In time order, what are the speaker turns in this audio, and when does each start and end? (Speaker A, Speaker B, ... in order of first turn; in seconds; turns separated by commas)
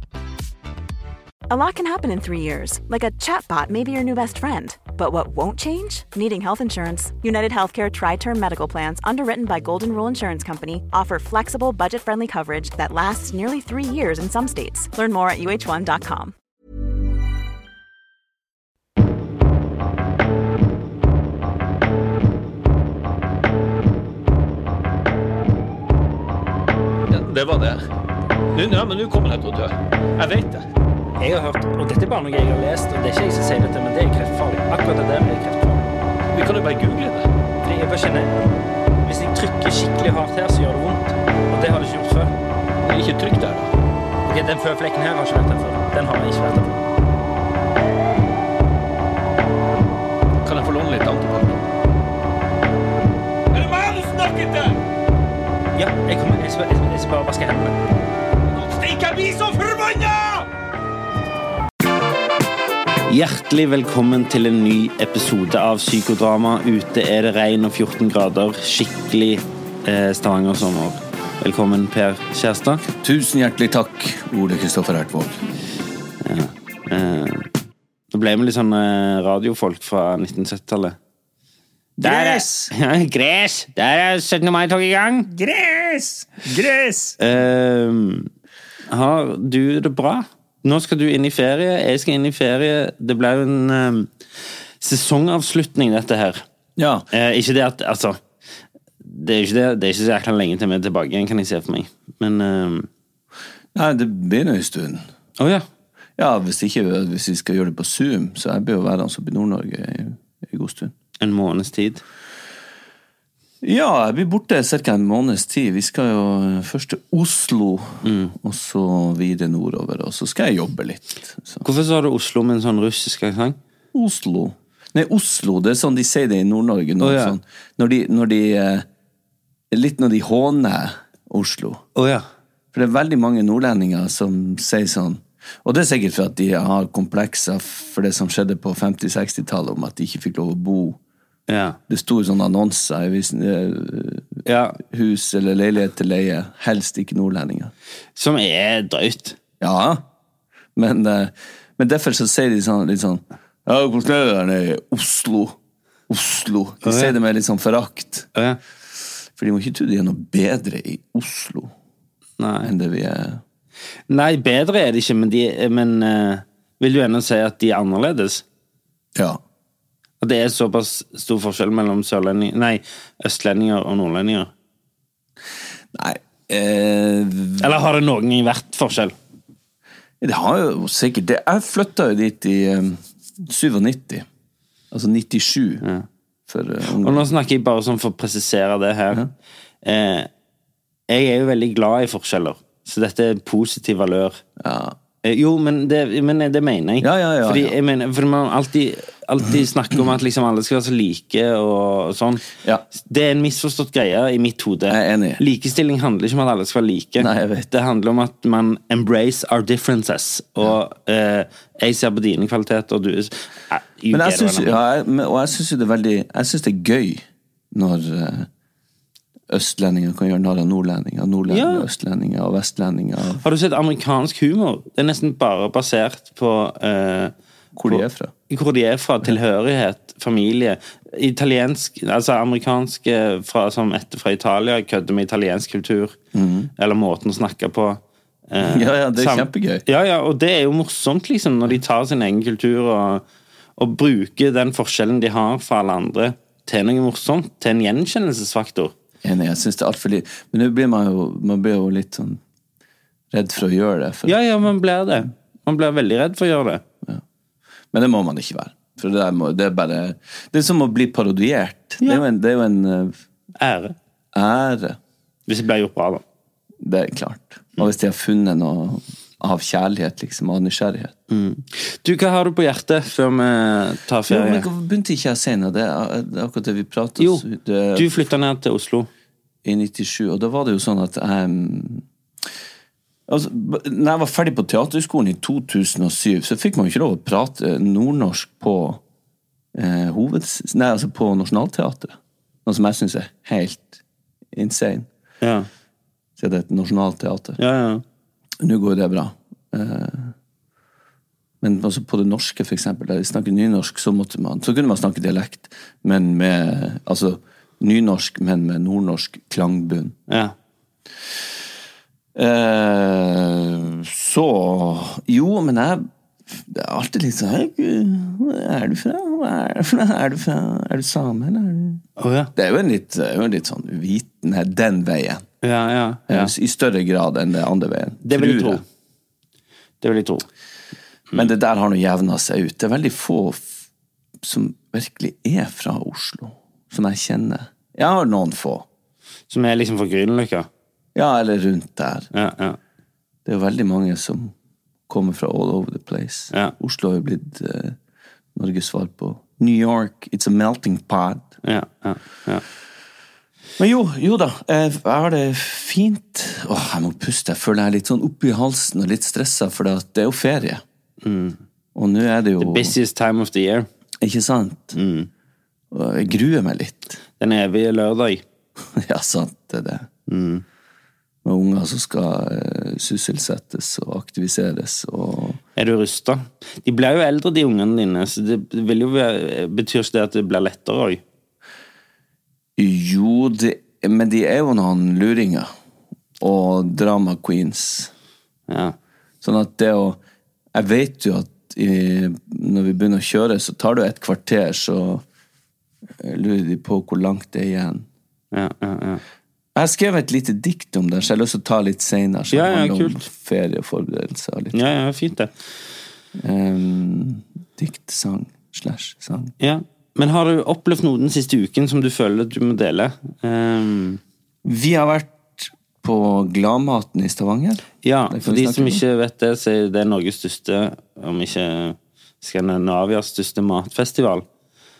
Speaker A: 1.5-16.3, Speaker B: 27.1-27.8, Speaker B: 28.5-30.6, Speaker C: 31.2-35.9, Speaker B: 36.3-37.3, Speaker C: 37.6-38.3, Speaker C: 39.0-42.3, Speaker B: 42.8-43.7, Speaker C: 44.2-46.8, Speaker B: 50.4-51.6, Speaker B: 53.5-54.8, Speaker C: 55.8-57.7, Speaker B: 58.5-60.5, Speaker D: 63.1-72.8, Speaker B: 73.0-75.4, Speaker D: 76.2-77.5, Speaker D: 78.1-81.0, Speaker B: 82.0-82.7, Speaker D: 82.0-85.3, Speaker B: 85.3-87.2, Speaker D: 87.2-88.3, Speaker D: 88.9-94.1, Speaker D: 94.8-96.4, Speaker B: 96.8-97.0, Speaker D: 97.1-98.2, Speaker D: 99.0-102.9, Speaker B: 103.7-105.0, Speaker D: 105.4-105.6, Speaker B: 106.2-110.9, Speaker D: 111.2-112.0, Speaker B: 113.6-121.6, Speaker D: 118.0-118.3, Speaker D: 121.6-123.6, Speaker B: 123.9-128.8, Speaker D: 127.0-127.3, Speaker B: 129.7-131.8, Speaker D: 131.9-132.2, Speaker B: 132.7-141.0, Speaker D: 141.5-141.8, Speaker B: 141.9-147.7, Speaker D: 144.4-144.8, Speaker D: 148.2-149.4, Speaker B: 149.6-150.0, Speaker B: 150.8-155.6, Speaker B: 156.1-158.3, Speaker D: 156.8-157.1, Speaker B: 159.3-161.7, Speaker D: 162.4-162.7, Speaker B: 162.6-163.4, Speaker D: 164.1-168.4, Speaker B: 169.1-169.4, Speaker D: 170.2-174.5, Speaker B: 175.9-177.8, Speaker D: 177.6-179.1, Speaker B: 180.2-184.2, Speaker B: 184.9-185.8, Speaker B: 186.5-187.3, Speaker D: 186.9-189.2, Speaker D: 189.8-190.3, Speaker D: 191.1-194.4, Speaker B: 194.6-195.0, Speaker D: 195.2-202.4, Speaker B: 197.0-197.7, Speaker D: 202.9-214.8, Speaker B: 204.9-205.4, Speaker B: 207.2-207.7, Speaker B: 214.1-218.5, Speaker B: 219.5-223.4, Speaker D: 221.5-221.9, Speaker D: 223.4-227.3, Speaker B: 227.8-228.3, Speaker D: 227.8-236.2, Speaker B: 236.3-236.7, Speaker D: 236.8-243.2, Speaker B: 238.6-239.8, Speaker D: 243.8-248.9, Speaker B: 249.2-252.4, Speaker B: 253.3-254.4, Speaker D: 254.2-256.8, Speaker B: 257.9-263.2, Speaker D: 263.6-263.9, Speaker B: 264.3-265.0, Speaker D: 265.5-266.2, Speaker B: 266.8-271.1, Speaker D: 271.3-274.7, Speaker B: 274.3-278.1, Speaker D: 277.2-279.1, Speaker B: 279.6-282.0, Speaker B: 283.3-289.0, Speaker B: 289.7-294.0, Speaker B: 294.5-295.1, Speaker D: 295.4-295.7, Speaker B: 296.4-297.6, Speaker D: 297.6-298.0, Speaker B: 298.6-300.3, Speaker B: 301.6-310.1, Speaker D: 310.3-310.5, Speaker B: 312.3-322.0, Speaker D: 322.2-322.5, Speaker B: 322.5-325.4, Speaker D: 325.6-326.5, Speaker B: 326.3-328.8, Speaker D: 328.2-328.8, Speaker D: 330.0-330.4, Speaker B: 331.3-333.7, Speaker B: 334.4-338.9, Speaker D: 339.5-340.7, Speaker B: 341.1-342.3, Speaker D: 342.3-342.8, Speaker B: 343.4-344.5, Speaker B: 345.1-348.0, Speaker B: 348.5-351.5, Speaker D: 351.6-352.6, Speaker B: 353.8-360.8, Speaker D: 361.2-361.6, Speaker B: 361.9-362.9, Speaker D: 362.6-363.9, Speaker B: 364.2-364.9, Speaker D: 364.9-365.3, Speaker B: 365.9-367.2, Speaker D: 367.4-368.4, Speaker B: 368.9-370.1, Speaker D: 370.3-370.6, Speaker B: 371.4-375.6, Speaker D: 375.8-381.2, Speaker B: 382.8-385.7, Speaker B: 386.4-388.1, Speaker D: 388.7-388.9, Speaker B: 389.4-390.2, Speaker B: 390.7-395.2, Speaker B: 396.2-398.1, Speaker D: 398.5-399.2, Speaker B: 399.7-404.8, Speaker D: 402.5-403.2, Speaker D: 404.7-405.5, Speaker B: 406.4-409.5, Speaker D: 409.6-414.2, Speaker B: 414.6-419.0, Speaker D: 418.0-424.4